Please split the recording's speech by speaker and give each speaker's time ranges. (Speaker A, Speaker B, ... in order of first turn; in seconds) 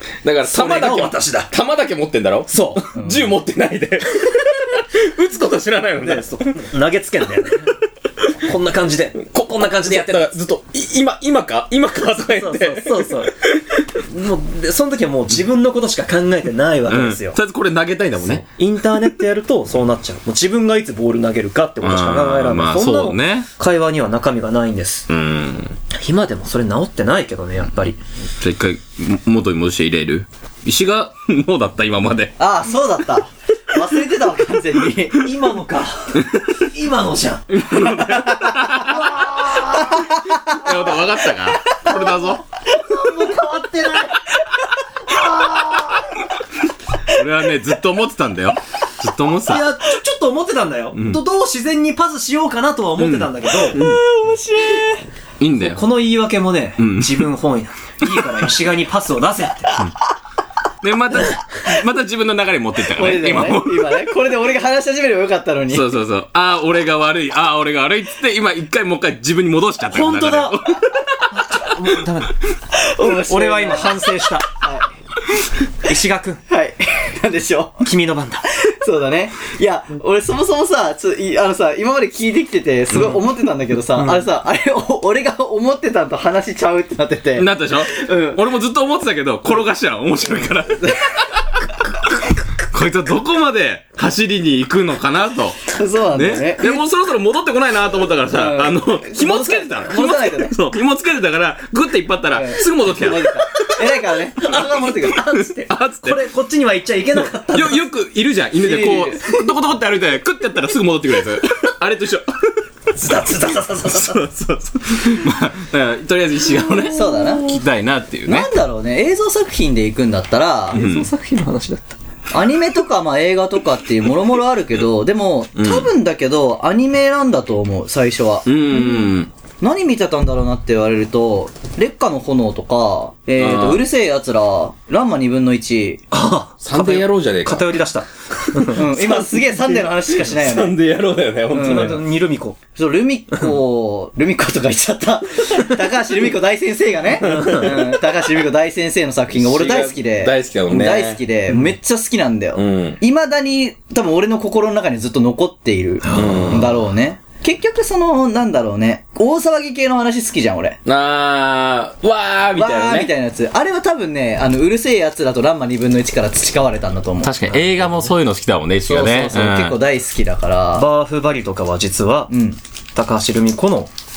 Speaker A: 0.2-6.7, 9.3-13.8, 16.9-18.4, 21.8-23.5, 25.1-25.8, 28.4-32.4, 37.5-42.4, 45.7-46.0, 47.1-49.6, 53.0-54.0, 55.4-55.9, 56.8-57.3, 58.1-58.4, 60.8-63.9, 65.7-71.8, 82.9-83.2, 87.4-103.7, 105.0-106.2, 107.4-112.4, 113.2-118.5, 120.7-121.1, 125.5-125.9, 128.5-129.3, 133.4-133.8, 136.6-137.7, 140.1-142.0, 147.4-147.7, 149.3-151.2, 152.6-153.0, 156.1-156.8, 160.9-163.1, 167.2-169.8
Speaker B: 0.4-1.5, 2.5-2.9, 6.0-7.7, 8.3-10.3, 12.3-13.4, 14.1-17.4, 18.2-25.1, 25.9-28.0, 35.2-37.6, 38.9-39.9, 42.7-44.2, 45.1-46.0, 49.5-53.8, 55.6-59.9, 69.9-70.6, 71.3-72.4, 73.0-74.5, 75.8-76.4, 77.8-78.5, 84.0-84.2, 104.4-107.8, 113.0-114.2, 120.7-122.0, 136.1-139.2, 141.6-142.6, 147.3-147.7, 156.0-156.6, 170.8-172.3, 172.9-173.9
Speaker C: 3.0-3.3, 32.4-35.3, 39.7-40.6, 53.7-55.0, 62.9-65.9, 72.7-74.9, 76.5-77.8, 78.6-88.4, 95.7-96.8, 98.3-100.5, 102.3-105.2, 108.6-109.5, 116.9-117.6, 118.3-120.8, 122.3-128.5, 129.6-136.0, 138.7-140.8, 141.5-142.0, 142.8-160.8, 162.6-167.3, 168.9-170.9, 172.3-172.6